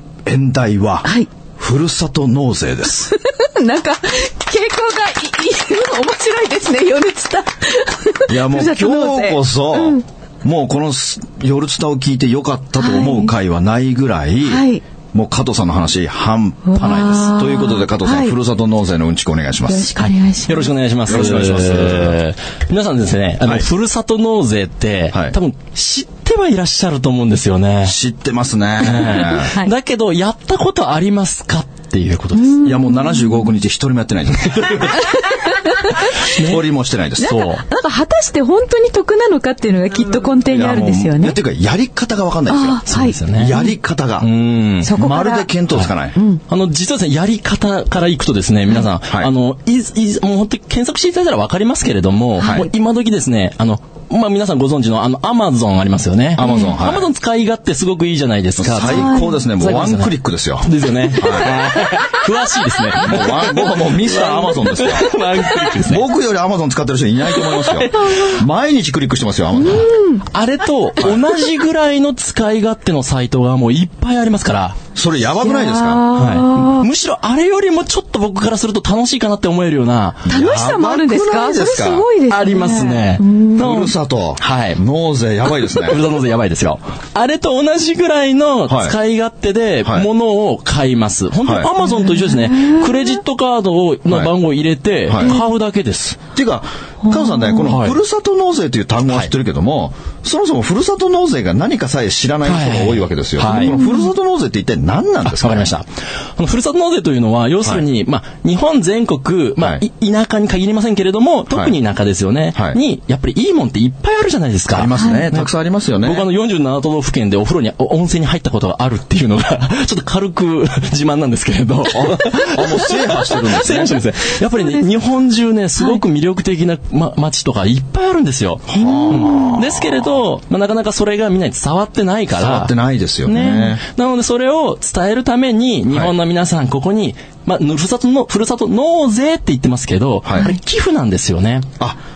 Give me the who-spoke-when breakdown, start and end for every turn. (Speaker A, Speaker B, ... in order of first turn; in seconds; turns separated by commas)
Speaker A: 0.2-3.1, Speaker B: 2.9-10.0, Speaker A: 8.3-20.0, Speaker B: 12.8-13.3, Speaker B: 14.4-14.8, Speaker B: 16.6-18.4, Speaker B: 19.7-20.7, Speaker C: 20.4-28.0, Speaker A: 21.1-22.2, Speaker A: 27.8-29.5, Speaker C: 28.8-32.8, Speaker B: 29.3-29.7, Speaker B: 32.3-33.2, Speaker A: 32.6-35.1, Speaker C: 34.6-34.9, Speaker B: 35.0-36.1, Speaker C: 36.2-37.6, Speaker A: 36.2-37.4, Speaker B: 37.2-41.4, Speaker A: 40.5-44.3, Speaker B: 42.5-43.2, Speaker C: 42.9-43.7, Speaker C: 44.2-45.0, Speaker B: 44.8-45.5, Speaker A: 44.8-46.2, Speaker B: 46.1-46.4, Speaker C: 46.5-66.0, Speaker B: 52.4-52.6, Speaker A: 52.4-52.7, Speaker A: 56.3-57.1, Speaker B: 56.4-56.7, Speaker A: 58.6-61.6, Speaker B: 58.9-59.4, Speaker A: 63.0-65.1, Speaker A: 65.8-69.9, Speaker C: 67.4-68.4, Speaker B: 69.6-70.2, Speaker C: 70.3-74.8, Speaker A: 74.9-76.1, Speaker B: 75.4-76.9, Speaker C: 76.1-80.3, Speaker A: 80.3-82.0, Speaker B: 80.3-83.6, Speaker C: 82.3-84.8, Speaker A: 83.6-86.0, Speaker C: 85.5-96.2, Speaker A: 88.7-88.9, Speaker A: 91.4-91.7, Speaker B: 91.8-93.2, Speaker A: 95.1-95.4, Speaker A: 96.3-105.7, Speaker C: 97.6-98.0, Speaker C: 102.4-103.8, Speaker B: 103.8-104.1, Speaker C: 105.2-132.7, Speaker A: 114.7-116.2, Speaker B: 115.0-115.2, Speaker A: 121.9-124.1, Speaker A: 128.7-130.0, Speaker A: 132.3-133.8, Speaker C: 133.2-141.7, Speaker A: 140.2-140.5